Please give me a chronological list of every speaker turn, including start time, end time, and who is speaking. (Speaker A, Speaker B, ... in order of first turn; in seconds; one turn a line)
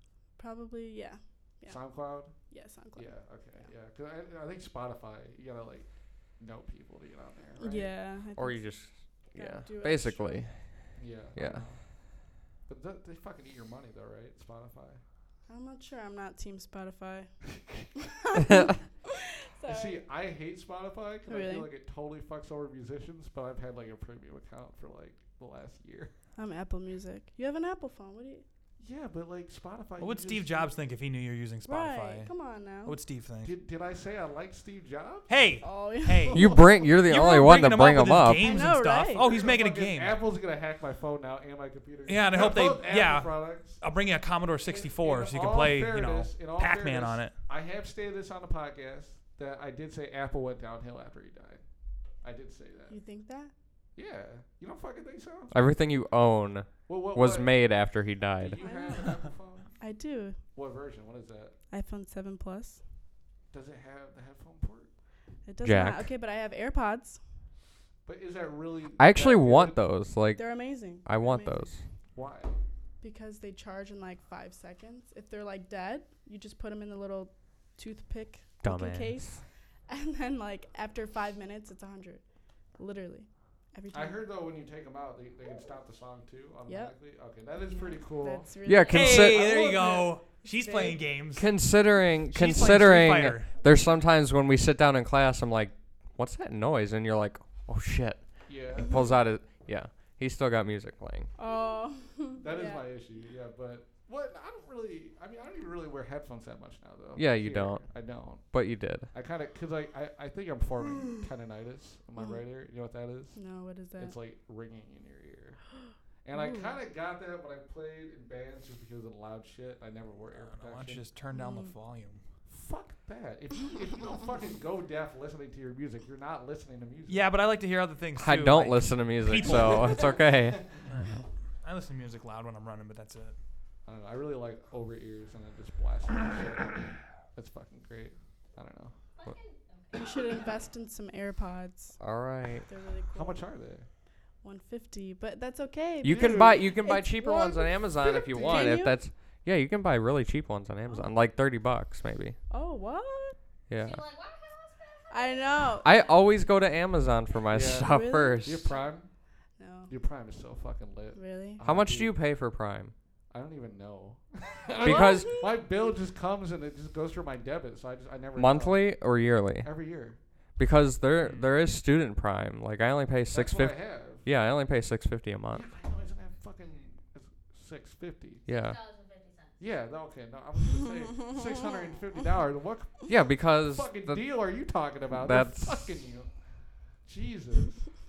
Speaker A: 0.4-3.1
Speaker B: 1.7-2.4
Speaker B: 3.0-5.9
Speaker B: 6.4-7.9
Speaker A: 7.6-8.7
Speaker C: 8.4-11.7
Speaker A: 9.3-10.5
Speaker B: 11.0-11.8
Speaker B: 12.7-15.0
Speaker A: 15.5-17.3
Speaker A: 18.0-20.0
Speaker C: 18.4-18.7
Speaker B: 19.7-26.1
Speaker A: 21.3-21.7
Speaker A: 26.4-28.4
Speaker B: 28.8-30.8
Speaker D: 30.0-32.3
Speaker A: 31.7-33.0
Speaker D: 32.8-33.5
Speaker B: 33.4-35.3
Speaker D: 35.3-40.2
Speaker A: 35.6-36.5
Speaker B: 36.2-37.0
Speaker C: 36.3-38.6
Speaker A: 38.4-39.3
Speaker B: 39.1-43.8
Speaker D: 42.1-47.4
Speaker B: 44.7-51.6
Speaker B: 52.2-53.0
Speaker A: 52.9-53.5
Speaker B: 54.0-55.5
Speaker C: 55.5-58.6
Speaker B: 56.9-57.6
Speaker B: 58.4-59.7
Speaker A: 58.6-59.2
Speaker A: 59.8-60.4
Speaker B: 60.5-61.5
Speaker A: 61.7-62.8
Speaker B: 63.5-64.9
Speaker A: 65.5-67.2
Speaker C: 65.6-66.1
Speaker B: 68.1-69.8
Speaker C: 69.0-71.8
Speaker A: 70.4-71.7
Speaker B: 72.1-72.6
Speaker A: 73.0-82.2
Speaker C: 78.6-79.4
Speaker A: 82.8-84.2
Speaker B: 83.9-88.5
Speaker A: 86.7-87.0
Speaker A: 87.6-91.0
Speaker C: 88.7-89.5
Speaker D: 88.9-91.5
Speaker B: 89.3-90.1
Speaker C: 91.3-101.3
Speaker D: 92.3-93.5
Speaker B: 98.5-99.1
Speaker A: 101.4-102.8
Speaker B: 102.4-108.5
Speaker C: 107.2-109.1
Speaker B: 109.1-113.4
Speaker A: 112.2-112.4
Speaker A: 113.3-114.2
Speaker B: 114.0-115.6
Speaker B: 116.2-121.1
Speaker A: 116.3-116.7
Speaker D: 120.4-122.2
Speaker A: 121.3-121.7
Speaker B: 122.5-127.3
Speaker D: 127.1-130.1
Speaker C: 128.2-130.7
Speaker B: 129.4-130.8
Speaker D: 130.9-133.4
Speaker B: 133.9-138.9
Speaker E: 139.2-140.6
Speaker A: 139.9-142.0
Speaker C: 142.0-142.7
Speaker A: 142.7-143.4
Speaker B: 143.1-143.9
Speaker A: 144.4-149.0
Speaker B: 146.0-146.7
Speaker C: 146.0-152.4
Speaker B: 148.3-148.7
Speaker A: 152.5-153.4
Speaker C: 153.7-154.0
Speaker E: 153.8-156.2
Speaker A: 155.1-155.9
Speaker C: 155.8-158.7
Speaker B: 157.5-159.1
Speaker A: 157.8-158.4
Speaker A: 159.6-159.9
Speaker B: 159.9-162.2
Speaker A: 161.2-161.6
Speaker C: 161.6-162.9
Speaker B: 163.3-168.9
Speaker A: 164.8-165.5
Speaker C: 164.8-165.4
Speaker C: 168.4-169.7
Speaker B: 169.6-170.2
Speaker C: 170.6-175.7
Speaker D: 171.2-171.5
Speaker B: 173.3-174.2
Speaker B: 175.5-178.4
Speaker C: 178.5-178.8
Speaker E: 178.5-179.7
Speaker B: 179.6-186.3
Speaker A: 180.8-182.2
Speaker C: 183.1-184.3
Speaker C: 185.1-186.0
Speaker B: 187.1-187.9